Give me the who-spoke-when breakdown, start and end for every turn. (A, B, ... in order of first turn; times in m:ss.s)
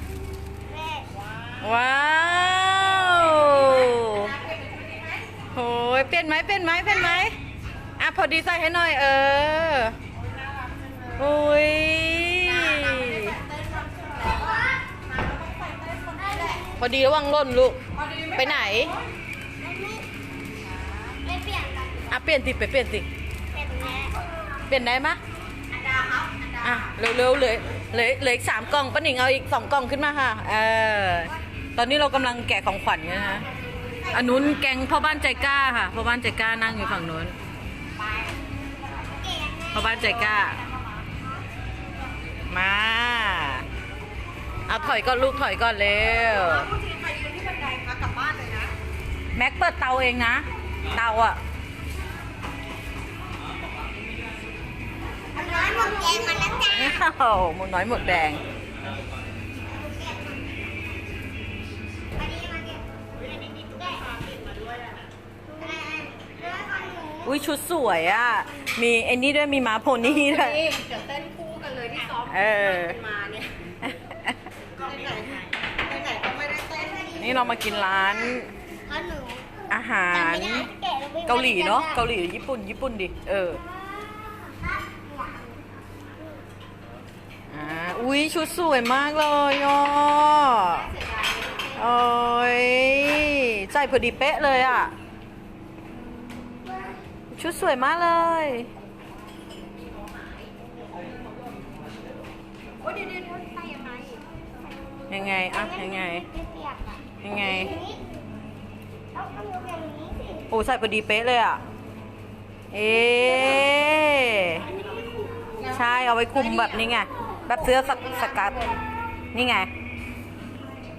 0:00.7-0:01.2 A
0:01.6-0:04.4 B
0:05.5-0:07.3 B
0:08.0-0:10.0 B
0:11.2-0:13.4 B
0:12.7-0:14.2 C
0:14.3-0:14.6 A
0:15.5-0:16.6 C
0:16.2-0:16.8 A
0:16.8-0:17.8 B
0:18.3-0:19.0 B
0:19.6-0:20.0 A
0:21.2-0:22.2 A
0:22.1-0:23.1 B
0:23.5-0:24.2 A
0:24.7-0:25.2 B
0:25.9-0:26.5 C
0:26.6-0:33.5 B
0:34.1-0:37.4 B
0:39.1-0:40.4 A
0:39.7-0:40.6 B
0:42.5-0:43.6 B
0:44.7-0:46.7 B
0:46.8-0:48.7 C
0:49.3-0:51.4 B
0:55.3-0:57.0 A
0:56.7-0:58.4 B
0:59.7-1:00.4 A
1:02.2-1:04.1 A
1:05.5-1:07.4 A
1:07.2-1:10.7 B
1:10.6-1:13.5 C
1:12.1-1:13.0 B
1:13.8-1:14.5 B
1:14.8-1:17.1 C
1:16.7-1:17.3 A
1:17.2-1:18.5 B
1:18.8-1:19.5 A
1:19.7-1:20.7 B
1:20.1-1:22.0 A
1:21.3-1:23.6 B
1:23.7-1:25.6 A
1:27.5-1:30.9 B
1:31.2-1:31.6 C
1:31.7-1:34.9 B
1:37.3-1:38.7 B
1:42.9-1:44.2 C
1:45.1-1:46.2 B
1:45.5-1:48.0 A
1:47.2-1:47.7 B
1:49.1-1:50.5 A
1:50.5-1:51.6 B
1:52.7-1:54.7 B
1:55.6-1:58.7 B
1:59.3-1:59.7 B